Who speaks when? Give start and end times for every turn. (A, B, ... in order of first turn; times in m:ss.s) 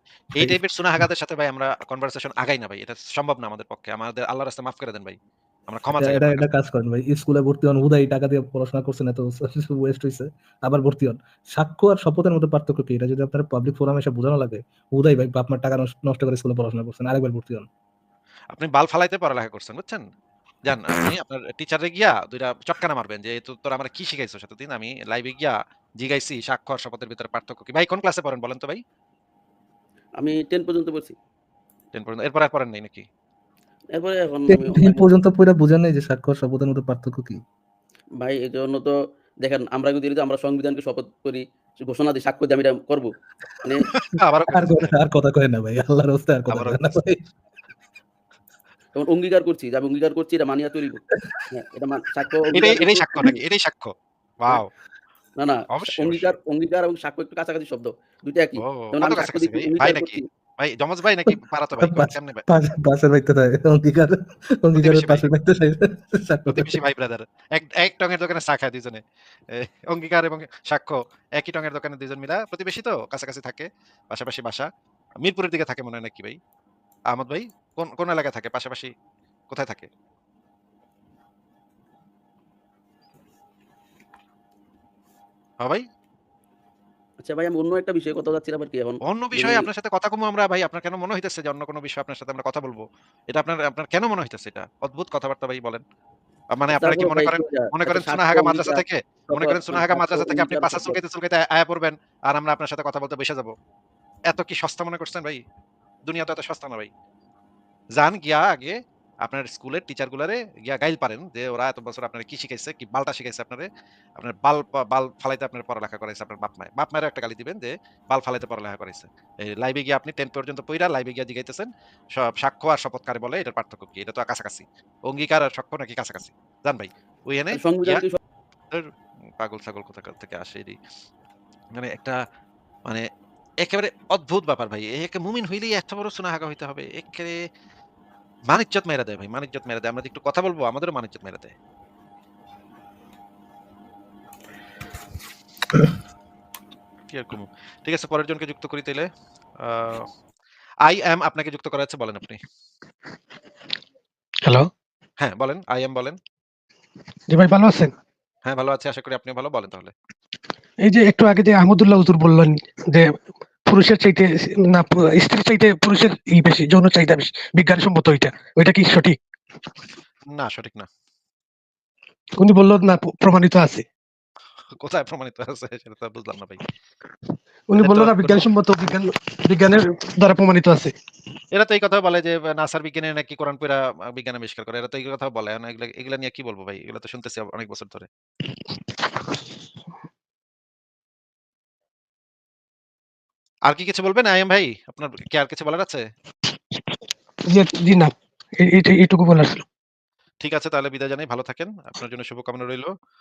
0:00.3-0:05.2 A
0:05.7-0:06.4 A
0:06.0-0:17.6 B
0:18.5-0:20.0 A
0:20.6-0:28.8 A
0:30.2-0:31.2 C
0:31.9-0:33.1 A
0:33.9-0:35.1 C
0:34.5-0:37.4 B
0:38.2-0:43.1 C
0:43.6-0:43.9 C
0:43.9-0:45.0 A
0:44.5-0:47.2 B
0:46.5-0:46.9 A
0:48.9-0:53.4 C
0:52.5-0:54.7 A
0:55.4-1:00.2 C
0:55.7-0:56.4 A
0:58.6-1:02.4 A
1:01.3-1:06.8 B
1:04.8-1:05.2 A
1:06.5-1:14.7 A
1:15.2-1:16.4 A
1:17.1-1:18.9 A
1:19.5-1:19.9 A
1:27.2-1:29.7 C
1:29.0-1:35.8 A
1:36.5-1:43.5 A
1:36.7-1:41.0 C
1:44.3-1:45.4 A
1:46.1-1:46.9 A
1:48.0-2:08.0 A
2:07.5-2:08.2 C
2:08.7-2:10.8 A
2:11.7-2:12.2 A
2:13.6-2:17.4 A
2:18.5-2:21.5 A
2:27.1-2:29.1 A
2:29.6-2:30.1 A
2:30.8-2:32.4 A
2:34.4-2:34.7 D
2:35.2-2:36.2 A
2:37.3-2:37.9 D
2:38.4-2:39.9 A
2:40.8-2:49.2 D
2:50.3-2:50.9 A
2:52.4-2:53.8 D
2:54.8-2:56.6 A
2:57.7-3:00.9 D
2:57.8-2:58.5 A
3:01.5-3:08.1 A
3:13.7-3:16.0 A
3:17.5-3:19.6 D
3:20.4-3:22.9 A